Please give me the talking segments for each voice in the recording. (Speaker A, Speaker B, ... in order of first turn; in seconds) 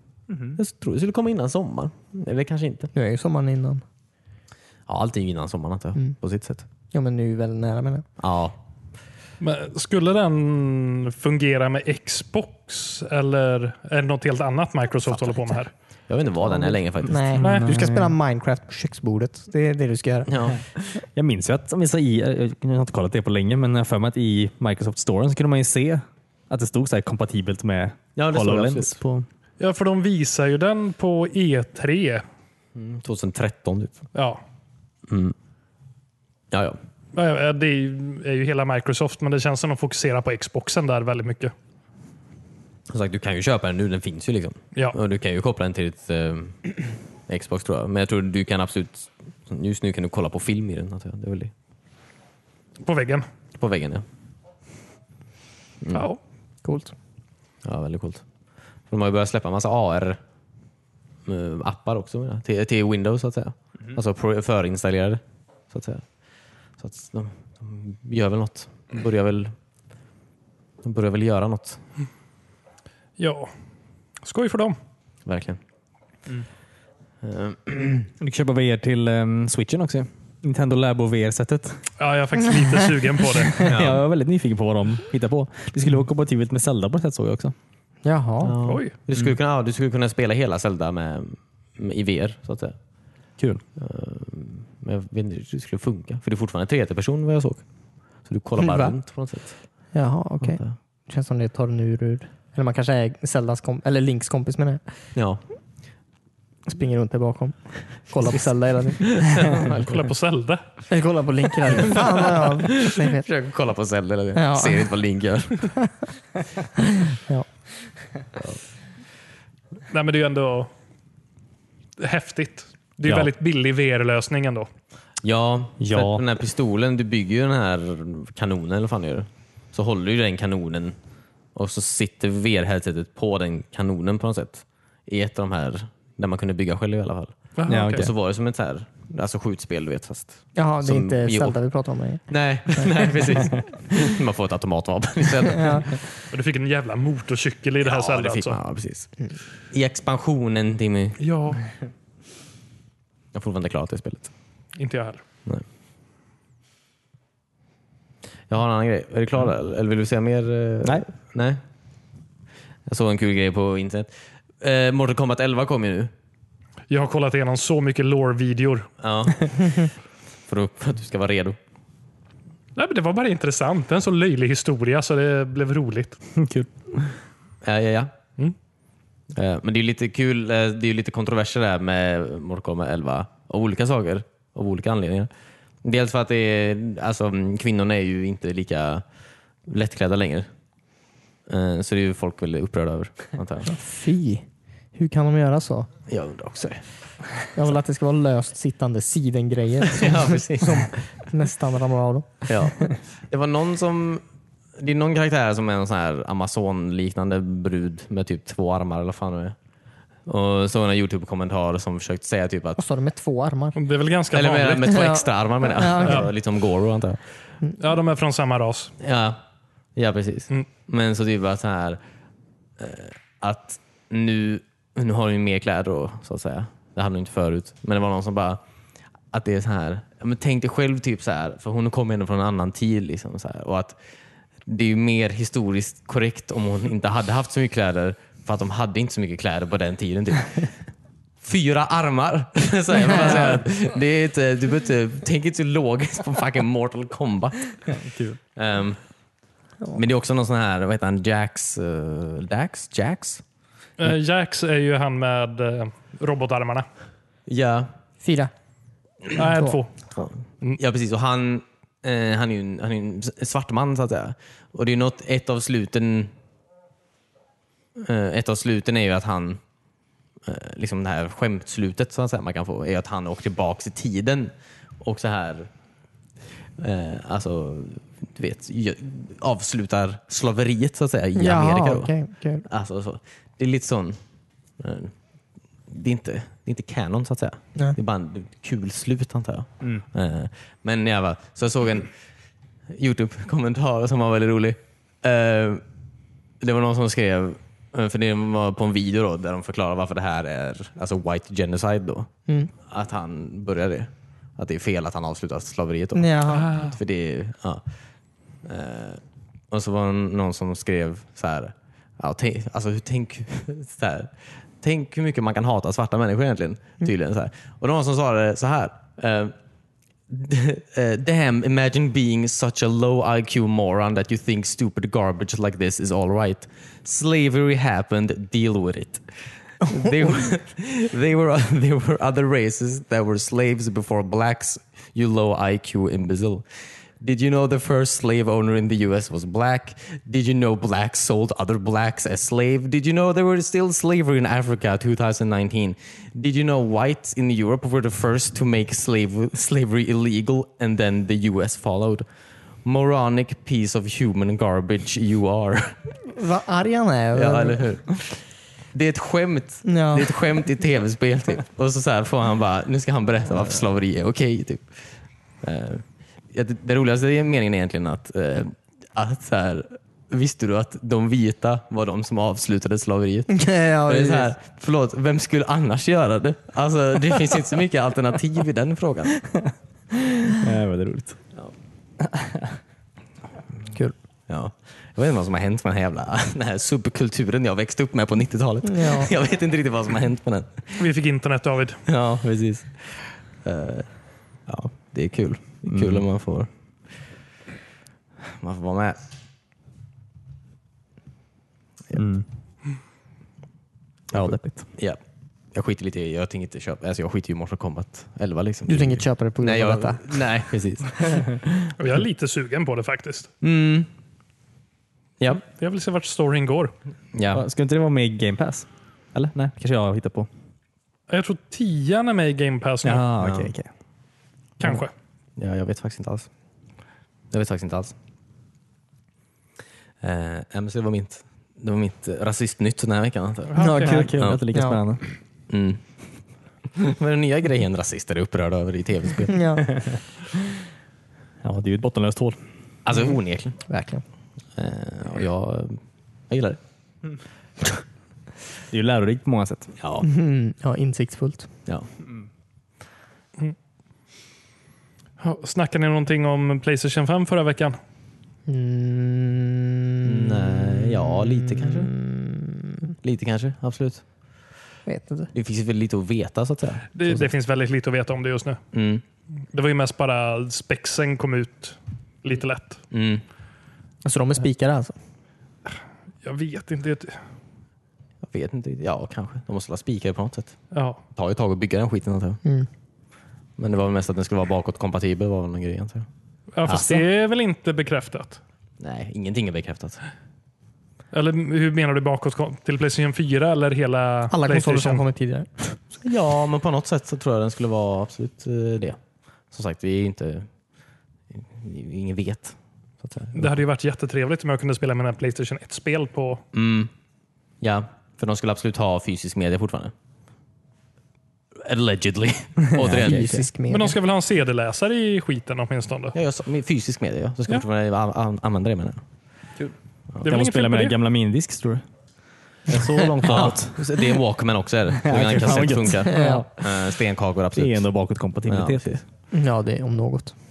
Speaker A: 0.3-0.6, 17.1-18.1, 21.1-29.3, 78.2-81.8, 83.6-87.5, 125.8-126.2, 137.7-138.1, 176.3-177.2, 247.9-248.4, 380.6-381.4, 382.2-382.8, 395.9-396.2, 402.1-402.4, 404.3-404.9, 417.5-420.5, 423.0-423.9, 433.8-435.2, 441.6-442.6, 448.9-449.9, 512.9-513.6, 520.4-522.0, 522.9-524.1, 525.2-526.9, 527.7-529.2
Speaker B: 0.6-2.9, 4.9-6.6, 8.2-8.6, 15.1-15.5, 16.1-17.4, 20.3-21.0, 28.1-29.0, 32.8-34.0, 35.1-35.3, 36.5-36.8, 42.9-51.5, 53.6-54.0, 55.8-56.1, 57.6-58.2, 58.9-60.2, 61.2-66.0, 66.8-69.5, 70.8-71.8, 75.2-75.6, 77.2-78.1, 83.6-84.0, 88.4-92.8, 93.8-97.6, 98.2-99.6, 100.4-100.7, 105.1-105.4, 109.1-110.0, 111.8-115.7, 125.2-130.9, 131.5-141.6, 142.3-146.0, 147.8-149.1, 149.7-151.2, 153.3-154.3, 158.5-161.6, 162.9-166.1, 169.0-169.9, 170.5-171.6, 177.6-178.1, 179.3-185.3, 185.8-189.0, 189.7-190.5, 191.5-193.8, 196.1-196.8, 199.9-200.9, 202.5-204.2, 204.8-209.5, 210.2-212.8, 214.3-217.2, 219.0-219.4, 219.9-222.0, 222.8-228.6, 229.3-233.9, 234.7-240.7, 241.4-248.0, 248.6-249.0, 249.9-253.4, 257.5-257.9, 260.1-266.3, 268.0-269.6, 270.4-275.7, 276.8-282.1, 282.6-284.2, 284.8-285.1, 285.9-292.1, 292.9-295.8, 296.6-302.3, 302.9-307.8, 308.6-309.2, 309.7-319.5, 320.3-329.2, 329.8-336.6, 337.2-352.2, 352.8-356.0, 357.3-358.4, 358.9-365.1, 365.6-379.4, 384.5-391.0, 392.1-394.1, 394.7-396.7, 398.5-399.2, 404.3-405.2, 405.7-411.9, 413.6-414.1, 417.3-417.6, 423.4-423.7, 425.6-426.5, 427.5-428.1, 430.2-434.6, 435.7-436.0, 436.9-439.6, 443.0-443.8, 444.8-446.8, 450.0-450.3, 460.2-462.1, 463.2-464.2, 465.5-467.5, 468.9-469.2, 473.1-473.4, 478.4-480.8, 481.4-482.6, 483.8-486.3, 489.0-490.2, 496.2-499.2, 499.7-500.7, 501.5-503.7, 506.7-507.1, 507.8-510.1, 511.8-513.6, 516.3-519.2, 523.1-528.1, 528.7-529.2
Speaker C: 2.9-3.8, 6.9-8.0, 16.4-20.3, 56.6-56.9, 88.0-88.5, 98.6-98.9, 99.9-104.8, 106.7-109.6, 110.9-113.2, 114.3-114.9, 117.0-117.5, 140.6-142.2, 142.8-143.4, 145.4-146.0, 193.7-194.4, 194.9-195.9, 197.5-202.9, 212.8-213.8, 214.9-216.3, 258.2-258.5, 281.4-282.6, 306.1-306.7, 329.9-330.3, 356.2-357.8, 359.8-360.3, 373.5-374.5, 388.8-389.3, 408.9-410.4, 434.7-435.0, 439.5-439.9, 443.9-444.2, 450.2-451.7, 458.6-463.1, 465.1-465.5, 474.2-475.1, 494.5-496.0, 513.0-514.1, 526.2-526.7, 529.5-530.5
Speaker D: 9.4-15.7, 17.4-17.7, 29.6-32.2, 34.1-34.4, 37.1-41.5, 52.8-53.2, 55.9-56.2, 73.2-73.5, 74.2-74.8, 82.0-83.6, 88.6-88.9, 109.6-110.6, 119.9-120.7, 122.0-124.7, 137.6-138.1, 146.3-148.6, 151.2-151.6, 154.8-155.2, 166.9-168.9, 172.8-176.2, 213.8-214.9, 216.0-216.3, 217.8-218.9, 254.0-256.9, 259.3-259.9, 306.5-306.9, 391.0-392.0, 412.0-413.5, 415.6-416.9, 421.3-423.3, 424.8-425.1, 433.7-434.2, 455.4-458.0, 467.1-468.8, 469.7-473.0, 476.4-477.4, 480.9-481.2, 486.7-488.6, 491.3-495.2, 503.5-506.6, 513.9-516.3, 520.4-521.1